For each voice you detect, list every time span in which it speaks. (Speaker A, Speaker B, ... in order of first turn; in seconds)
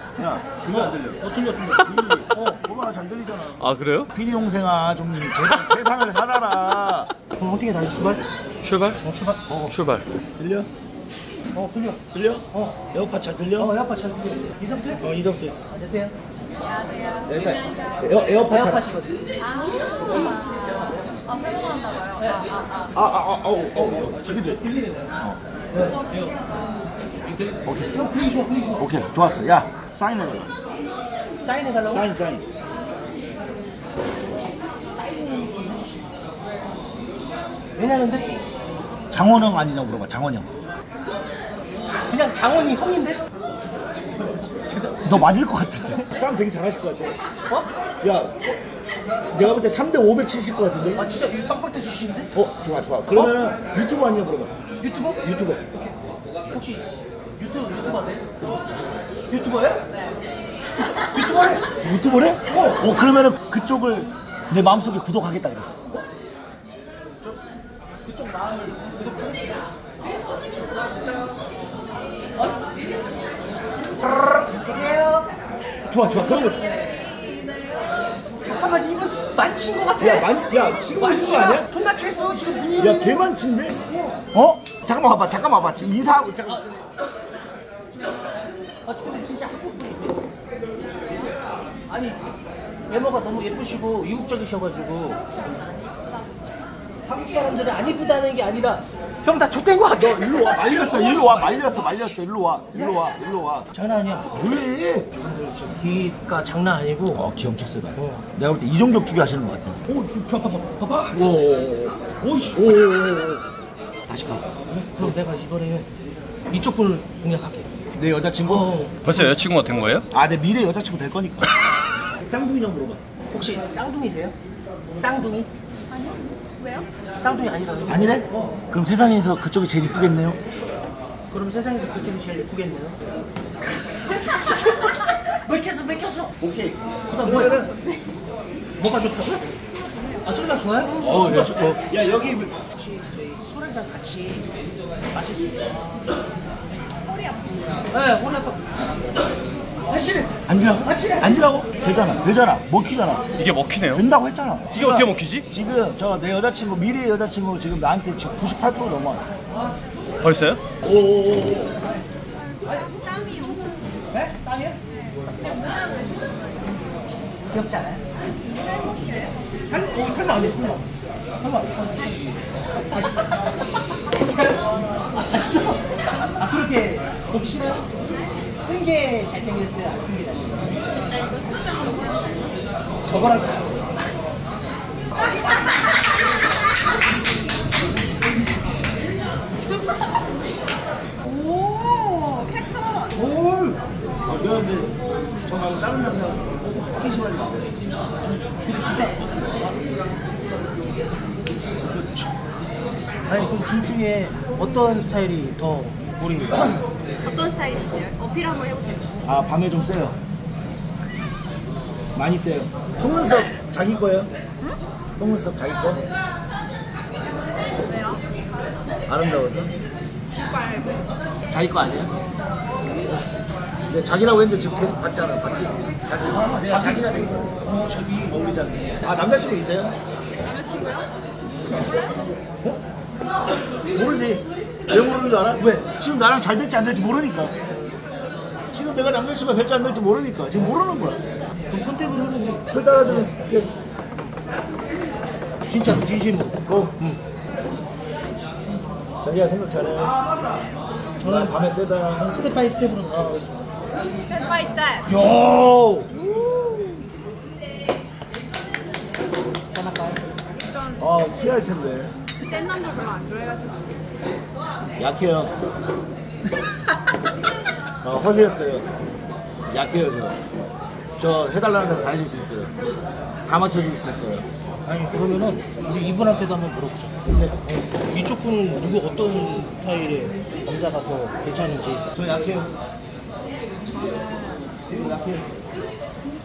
Speaker A: 0.2-7.1, 9.5-9.8, 10.3-10.7, 12.1-13.7, 15.0-15.5, 17.2-18.9, 22.9-24.6, 27.6-27.9, 28.8-30.5, 31.9-32.4, 39.1-40.5, 45.0-47.2, 48.0-48.5, 49.3-51.0, 52.3-54.6, 55.2-55.6, 61.8-65.7, 75.9-76.7, 80.0-81.7, 82.8-83.8, 84.3-86.6, 100.0-103.7, 104.3-105.1, 107.1-109.8, 111.1-113.4, 114.1-115.2, 117.9-118.8, 120.1-121.5, 122.2-123.0, 127.9-130.4, 136.4-137.8, 141.0-142.5, 150.4-153.3, 153.9-159.3, 160.8-161.8, 194.2-197.8, 201.8-202.3, 209.2-210.2, 212.1-214.3, 215.2-216.1, 219.1-219.7, 221.5-222.1, 223.9-227.6, 228.8-229.9, 233.9-237.5, 238.7-241.2, 242.7-243.7, 246.7-246.9, 249.2-250.2, 251.2-252.3, 261.0-262.1, 265.0-265.6, 268.0-268.9, 269.7-270.5, 271.1-272.7, 273.4-274.4, 277.2-277.6, 282.1-282.7, 284.9-285.5
Speaker B: 0.7-2.6, 7.4-8.2, 9.0-9.4, 11.5-12.8, 13.6-15.0, 15.7-16.1, 18.4-19.2, 20.1-21.2, 22.2-22.5, 23.8-25.0, 25.7-26.4, 27.3-28.8, 31.4-32.0, 34.4-36.2, 37.8-38.4, 42.0-43.2, 43.9-45.2, 50.9-52.3, 54.8-55.2, 56.5-56.9, 57.4-58.3, 59.3-59.9, 61.0-61.7, 62.5-62.8, 68.0-69.6, 74.0-75.3, 78.4-83.3, 83.9-84.2, 88.8-90.2, 91.9-92.2, 92.9-95.2, 97.0-102.1, 102.7-103.1, 103.7-104.3, 105.1-107.2, 108.0-108.2, 109.9-111.4, 112.2-112.6, 114.9-115.9, 116.5-117.7, 118.4-119.2, 123.3-124.3, 124.9-125.5, 127.2-128.6, 131.3-133.0, 133.8-136.3, 137.2-137.6, 138.8-139.4, 140.2-141.5, 142.7-144.4, 145.1-146.0, 147.9-148.8, 149.9-151.4, 164.1-164.8, 167.5-168.0, 169.7-170.9, 171.4-172.3, 172.9-173.3, 174.0-177.9, 178.6-180.7, 183.1-183.7, 193.1-193.8, 198.6-199.4, 203.2-206.8, 226.3-228.9, 235.6-235.8, 241.7-242.6, 245.6-247.2, 251.2-251.6, 252.1-253.7, 255.1-256.2, 259.7-260.2, 274.9-282.0
Speaker C: 3.6-4.1, 8.6-9.0, 9.7-10.1, 119.0-120.0, 141.2-141.6, 153.3-154.0, 154.7-155.4, 160.2-160.6
Speaker D: 16.9-17.2, 19.5-20.7, 21.3-22.8, 125.9-126.9, 137.6-138.0, 139.9-140.2, 147.0-147.9, 162.4-164.0, 165.2-166.9, 168.4-169.5, 181.1-182.5, 185.2-185.5, 189.5-190.2, 191.2-193.1, 207.2-209.1, 217.7-218.4, 220.3-221.1, 230.4-231.1, 231.7-232.2, 254.1-255.1, 256.2-257.0, 260.6-261.0, 262.4-264.1, 283.9-284.7